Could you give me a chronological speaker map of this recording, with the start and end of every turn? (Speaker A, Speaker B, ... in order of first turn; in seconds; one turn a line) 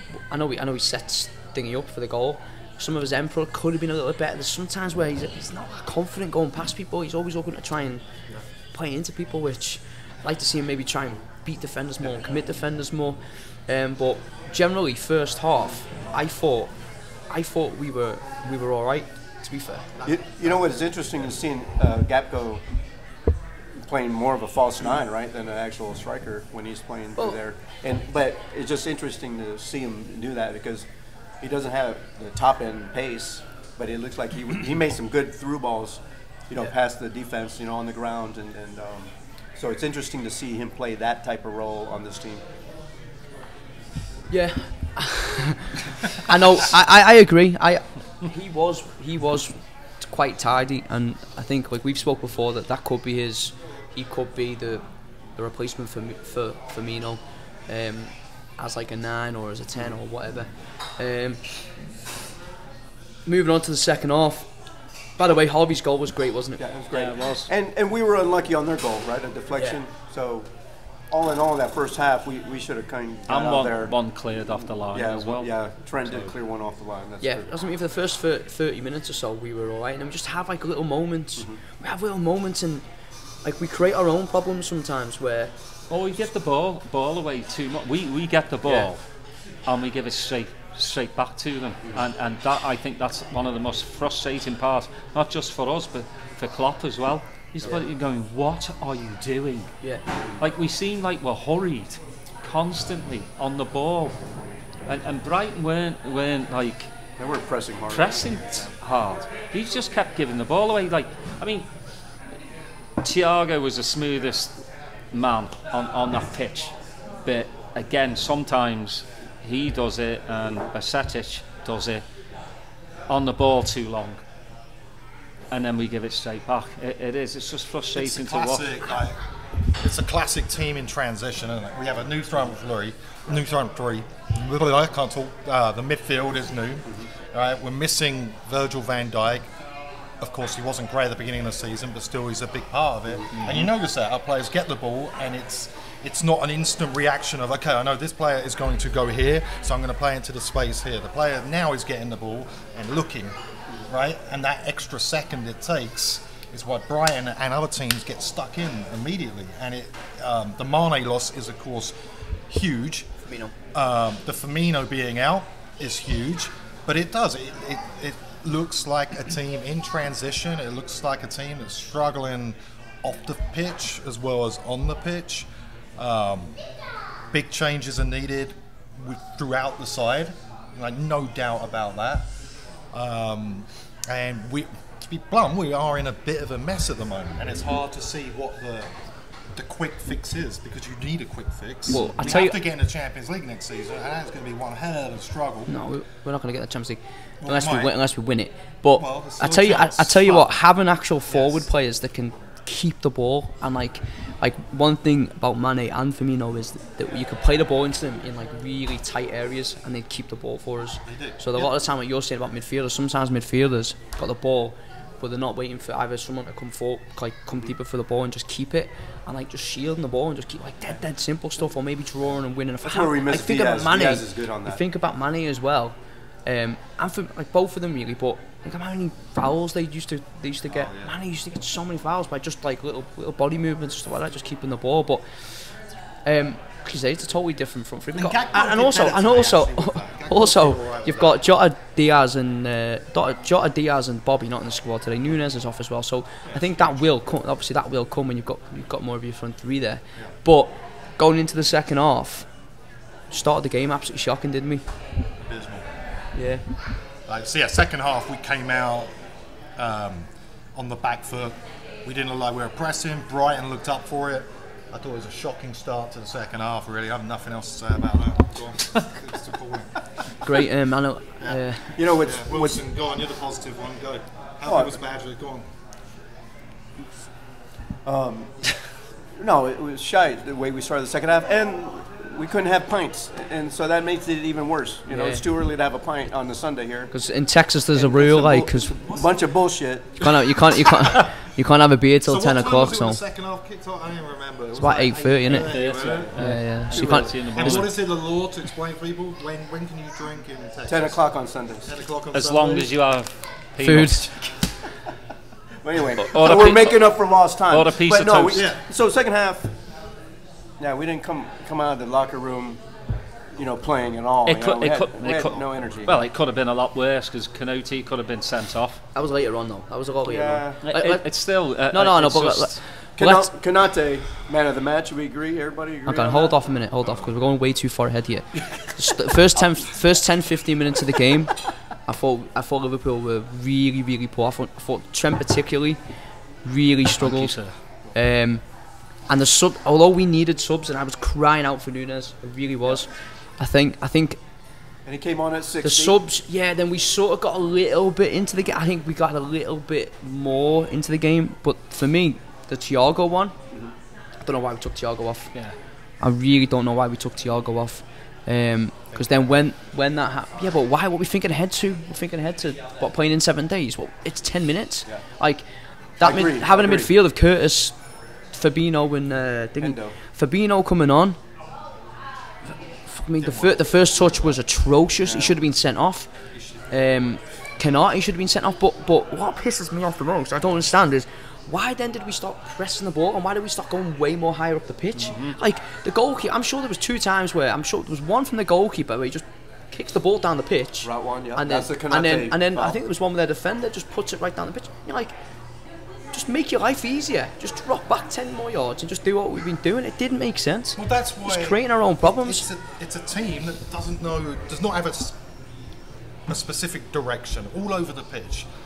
Speaker A: 0.1-8.0
Speaker A: 8.7-16.7
Speaker A: 17.3-19.9
Speaker B: 19.9-20.7
Speaker C: 20.1-22.6
Speaker C: 23.8-30.9
Speaker C: 31.4-42.4
Speaker A: 44.3-54.8
Speaker A: 55.3-61.4
Speaker A: 63.2-64.5
Speaker A: 65.2-66.6
Speaker C: 66.6-70.5
Speaker D: 66.9-67.5
Speaker A: 69.5-69.8
Speaker C: 71.1-73.9
Speaker D: 73.3-76.3
Speaker C: 74.9-77.5
Speaker A: 77.2-82.8
Speaker A: 83.4-85.5
Speaker D: 85.9-89.0
Speaker D: 89.7-99.7
Speaker D: 100.4-104.2
Speaker D: 104.8-106.9
Speaker C: 107.2-108.7
Speaker D: 107.9-111.7
Speaker D: 113.0-114.5
Speaker D: 115.1-116.7
Speaker D: 117.2-122.0
Speaker D: 123.1-124.2
Speaker D: 125.5-128.8
Speaker B: 128.0-129.2
Speaker B: 129.8-139.5
Speaker B: 140.2-161.9
Speaker D: 143.3-143.7
Speaker B: 162.5-163.1
Speaker A: 163.2-163.5
Speaker B: 163.7-176.6
Speaker B: 177.3-182.3
Speaker B: 182.9-188.9
Speaker B: 189.5-195.7
Speaker A: 191.9-192.6
Speaker A: 195.7-235.7
Speaker B: 197.4-197.9
Speaker B: 199.0-200.5
Speaker B: 201.3-201.7
Speaker B: 211.0-211.7
Speaker C: 222.8-224.8
Speaker B: 230.7-231.1
Speaker A: 236.2-252.5
Speaker B: 238.1-241.4
Speaker B: 246.5-246.9
Speaker A: 253.3-254.8
Speaker B: 255.4-255.9
Speaker A: 256.3-256.6
Speaker B: 257.3-259.1
Speaker B: 259.8-270.0
Speaker A: 270.4-272.0
Speaker B: 271.4-275.6
Speaker C: 271.9-272.8
Speaker C: 274.6-274.9
Speaker C: 278.0-278.8
Speaker C: 279.4-287.1
Speaker A: 285.1-285.4
Speaker A: 287.1-288.9
Speaker C: 287.9-290.3
Speaker B: 289.1-289.4
Speaker A: 290.2-293.2
Speaker B: 292.2-296.4
Speaker A: 294.8-295.8
Speaker D: 295.5-297.9
Speaker A: 296.4-297.8
Speaker C: 296.9-297.4
Speaker B: 297.5-301.2
Speaker C: 300.9-301.9
Speaker B: 301.8-302.9
Speaker D: 302.3-304.4
Speaker A: 303.8-304.3
Speaker C: 305.8-309.7
Speaker D: 306.2-308.7
Speaker B: 308.5-308.8
Speaker C: 310.8-312.8
Speaker C: 313.5-316.2
Speaker D: 314.4-319.0
Speaker A: 319.1-323.5
Speaker C: 320.2-320.8
Speaker D: 320.8-322.9
Speaker C: 323.2-326.7
Speaker A: 326.1-336.0
Speaker A: 336.6-338.7
Speaker D: 337.2-337.8
Speaker A: 339.3-344.4
Speaker C: 345.0-346.2
Speaker A: 345.8-353.5
Speaker A: 354.4-355.5
Speaker A: 356.2-365.6
Speaker A: 366.2-371.4
Speaker C: 366.2-367.1
Speaker C: 369.8-370.1
Speaker A: 373.1-376.3
Speaker B: 373.4-374.5
Speaker C: 375.2-375.6
Speaker B: 376.5-376.9
Speaker A: 376.9-395.3
Speaker C: 391.0-392.9
Speaker A: 396.3-402.6
Speaker B: 401.0-405.4
Speaker B: 406.5-408.6